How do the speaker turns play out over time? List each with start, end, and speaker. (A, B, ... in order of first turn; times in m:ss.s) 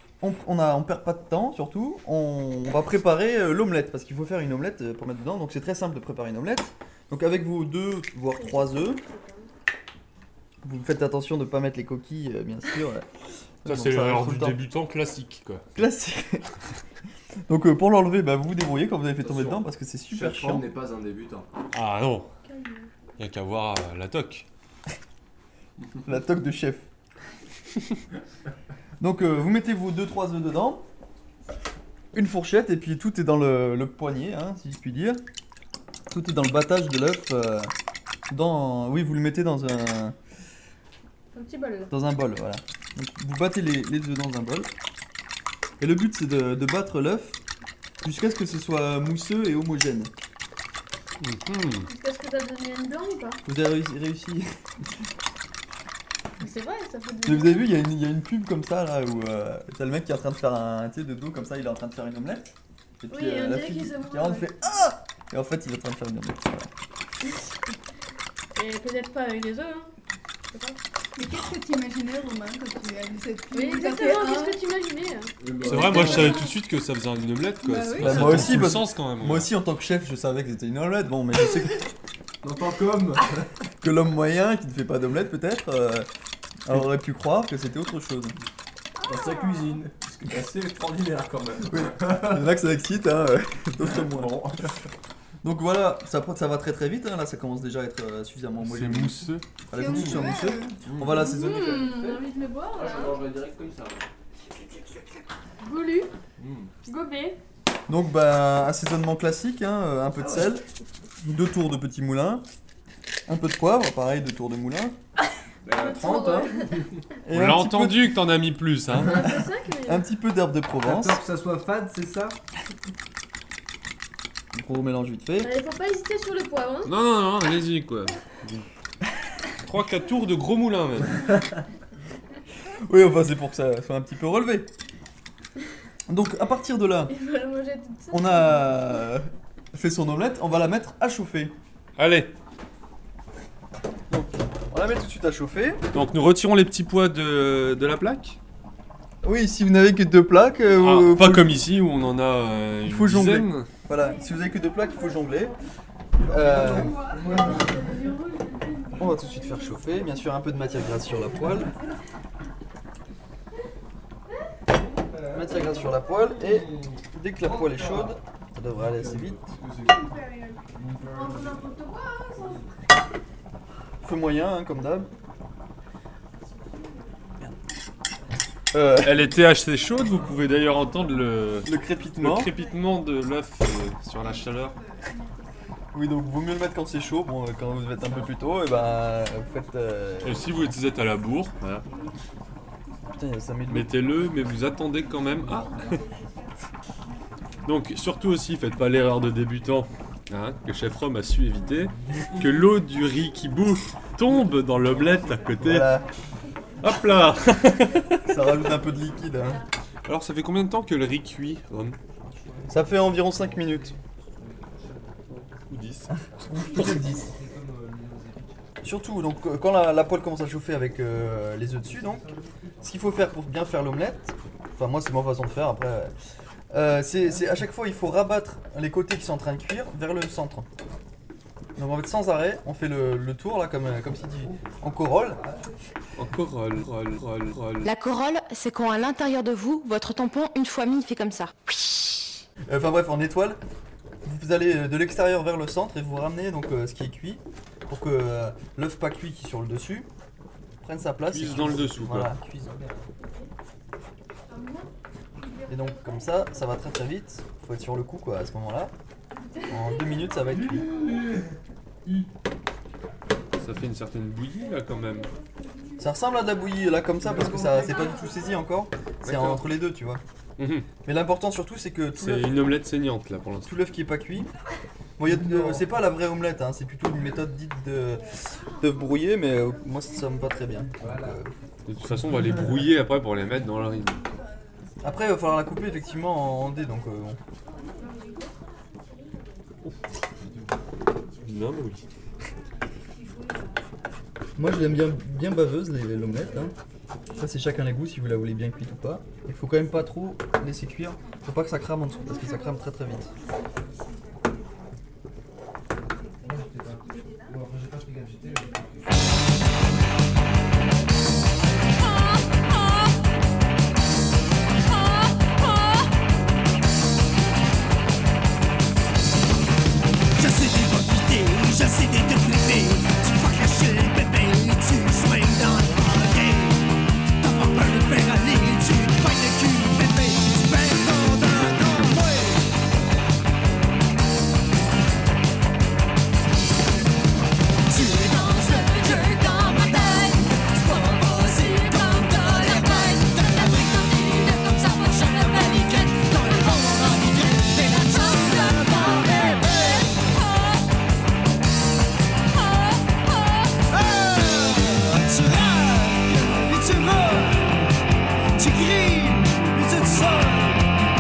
0:00.2-0:09.0 A
0:08.3-0:09.5 B
0:10.6-0:13.1 A
0:13.6-0:14.6 A
0:13.7-0:15.7 C
0:15.8-0:16.5 A
0:17.5-0:20.7 A
0:19.2-0:21.5 D
0:21.7-0:22.3 C
0:22.5-0:22.9 B
0:23.2-0:24.5 C
0:26.0-0:26.9 A
0:29.0-0:30.8 A
0:32.1-0:35.2 A
0:36.1-0:37.7 A
0:38.3-0:40.2 A
0:41.3-0:41.9 B
0:41.9-0:44.7 A
0:45.8-0:47.4 A
0:48.0-0:50.1 A
0:51.2-0:51.9 C
0:51.9-0:53.4 B
0:53.4-0:54.5 A
0:56.4-0:57.7 B
0:57.2-1:06.7 A
1:03.1-1:04.5 B
1:07.2-1:07.6 B
1:08.6-1:09.9 B
1:10.5-1:10.8 B
1:11.2-1:14.6 E
1:13.5-1:15.3 B
1:15.4-1:16.4 D
1:15.6-1:19.5 C
1:15.9-1:16.3 A
1:17.6-1:18.5 E
1:18.0-1:21.9 A
1:22.4-1:23.6 D
1:23.8-1:26.1 A
1:26.7-1:28.4 A
1:29.0-1:32.5 D
1:29.1-1:29.6 E
1:31.6-1:34.7 A
1:33.8-1:34.7 D
1:35.4-1:42.1 A
1:38.6-1:39.4 C
1:39.7-1:40.8 E
1:39.8-1:44.1 D
1:41.1-1:43.2 B
1:45.6-1:46.1 B
1:46.4-1:46.7 D
1:46.8-1:47.4 B
1:47.9-1:50.6 A
1:50.2-1:50.6 D
1:51.2-1:52.5 A
1:53.2-1:55.0 A
1:55.6-1:57.0 D
1:55.7-1:56.7 B
1:57.2-1:58.2 A
1:57.3-1:59.2 C
1:59.0-2:00.1 B
1:59.8-2:01.2 A
2:00.8-2:02.4 D
2:04.5-2:05.5 A
2:05.4-2:06.9 B
2:06.8-2:08.7 C
2:09.6-2:11.3 C
2:12.9-2:14.7 A
2:16.1-2:17.1 A
2:17.1-2:19.0 B
2:18.1-2:21.6 A
2:22.0-2:22.3 C
2:24.1-2:25.8 A
2:25.9-2:28.4 C
2:29.2-2:31.6 A
2:30.8-2:33.7 C
2:32.8-2:35.6 A
2:34.9-2:35.2 B
2:36.2-2:37.0 A
2:36.3-2:37.9 D
2:36.6-2:40.1 B
2:39.0-2:41.7 A
2:44.7-2:50.2 D
2:45.3-2:49.5 A
2:49.8-2:50.7 E
2:50.8-2:51.7 D
2:51.1-2:52.7 B
2:54.0-2:55.1 A
2:58.7-2:59.3 A
2:59.0-3:04.8 C
3:01.7-3:02.5 A
3:04.2-3:05.7 E
3:05.9-3:10.5 A
3:10.2-3:11.8 C
3:13.2-3:14.0 A
3:13.7-3:16.0 C
3:15.8-3:16.2 E
3:17.6-3:26.0 C
3:22.1-3:22.4 D
3:25.6-3:26.1 A
3:26.8-3:28.3 C
3:28.2-3:29.6 A
3:30.1-3:32.0 C
3:32.2-3:38.7 D
3:32.7-3:34.0 A
3:35.3-3:37.1 C
3:36.5-3:37.2 A
3:38.8-3:42.2 A
3:41.8-3:43.1 D
3:42.8-3:46.1 A
3:46.7-3:50.7 A
3:51.8-3:55.4 A
3:54.0-3:55.8 D
3:56.2-3:57.9 C
3:57.8-4:01.5 F
4:02.7-4:03.6 A
4:04.2-4:10.1 A
4:10.8-4:12.8 A
4:11.2-4:12.3 C
4:11.5-4:11.8 D
4:12.7-4:13.1 D
4:14.5-4:14.9 E
4:15.7-4:18.9 A
4:19.7-4:20.9 A
4:20.4-4:22.3 D
4:23.6-4:25.3 C
4:26.0-4:30.2 A
4:27.2-4:28.3 D
4:29.2-4:29.6 C
4:30.6-4:30.9 C
4:31.0-4:32.7 A
4:32.2-4:33.8 C
4:33.6-4:34.5 A
4:35.2-4:41.5 A
4:35.2-4:35.8 D
4:41.0-4:41.5 D
4:41.9-4:44.2 C
4:42.1-4:42.8 D
4:44.2-4:45.1 E
4:45.0-4:47.4 A
4:48.0-4:48.3 E
4:50.4-4:50.7 D
4:51.4-4:52.0 C
4:54.6-4:56.8 A
4:57.3-5:03.3 A
5:06.4-5:09.2 D
5:20.4-5:32.7 G
5:37.9-5:50.5 G
5:53.9-5:57.9 G
5:58.6-6:00.9 G